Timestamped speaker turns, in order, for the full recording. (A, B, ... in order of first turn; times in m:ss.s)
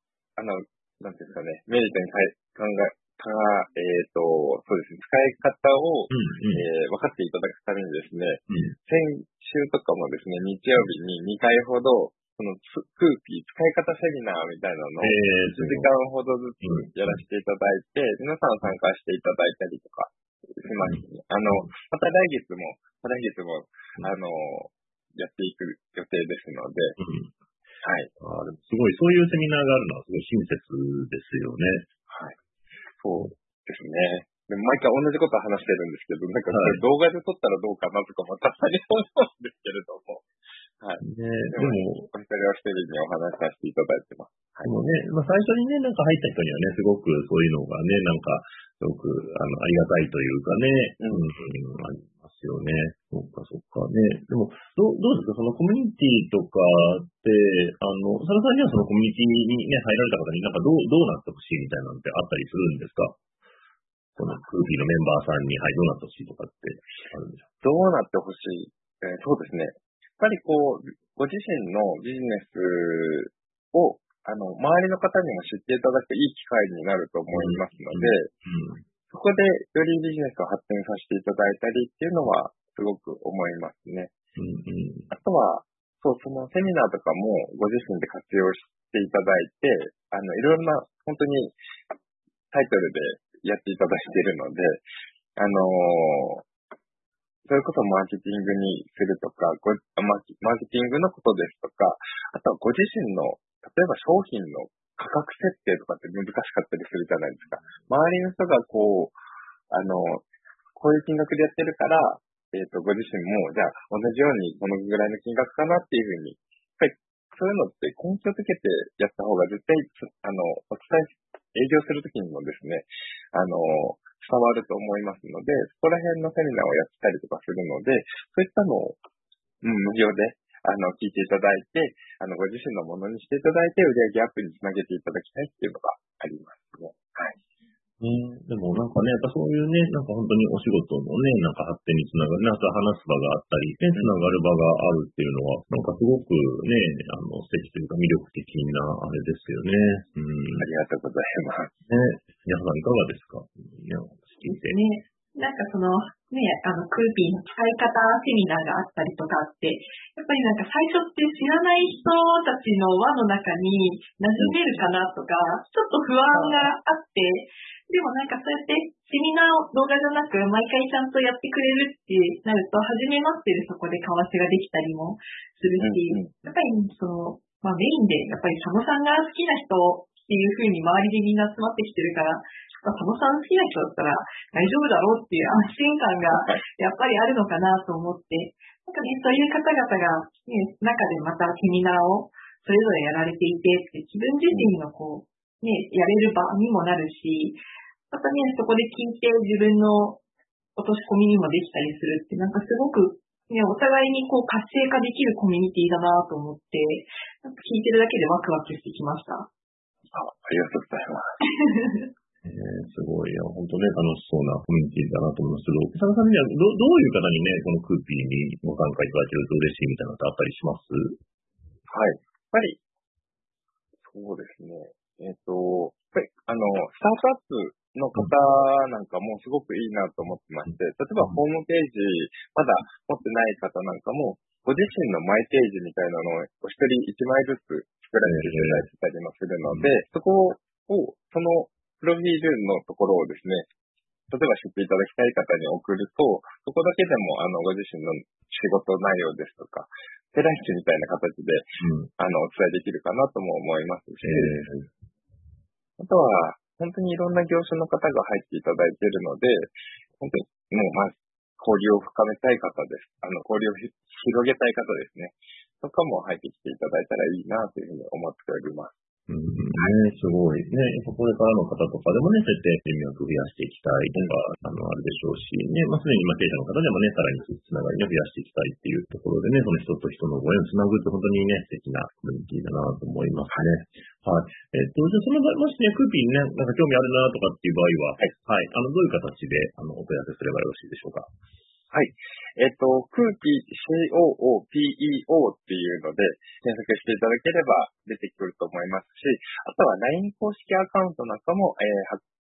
0:00.4-0:27.0 A
0:06.1-0:06.6 B
0:08.5-0:08.8 B
0:15.0-0:15.9 B
0:16.6-0:17.2 B
0:27.0-0:27.3 B
0:27.8-0:28.1 A
0:28.2-0:31.9 B
0:32.1-0:32.4 A
0:33.0-0:40.2 A
0:36.5-0:36.8 B
0:40.8-0:44.7 A
0:41.0-0:42.1 B
0:44.6-1:03.2 B
0:51.0-0:51.3 A
1:04.2-1:07.5 B
1:07.6-1:18.3 A
1:17.3-1:18.8 B
1:19.1-1:24.1 A
1:24.4-1:25.1 B
1:25.1-1:31.5 A
1:32.5-1:34.8 A
1:35.4-1:36.4 A
1:37.5-1:49.2 A
1:49.7-1:50.2 A
1:50.8-2:09.0 A
2:09.6-2:17.4 A
2:18.0-2:30.7 B
2:30.5-2:31.7 A
2:31.9-2:34.8 B
2:34.5-3:20.2 C
2:46.3-2:46.7 A
2:55.8-2:56.3 A
3:20.8-3:29.5 C
3:30.1-3:31.4 A
3:31.7-3:32.1 C
3:32.4-3:41.2 B
3:41.9-3:42.8 A
3:44.0-4:03.7 A
3:58.2-3:58.9 B
3:59.7-3:59.9 B
4:04.3-4:14.7 A
4:11.8-4:12.1 B
4:14.2-4:14.9 B
4:16.0-4:28.9 A
4:29.3-4:51.3 B
4:51.9-5:02.2 A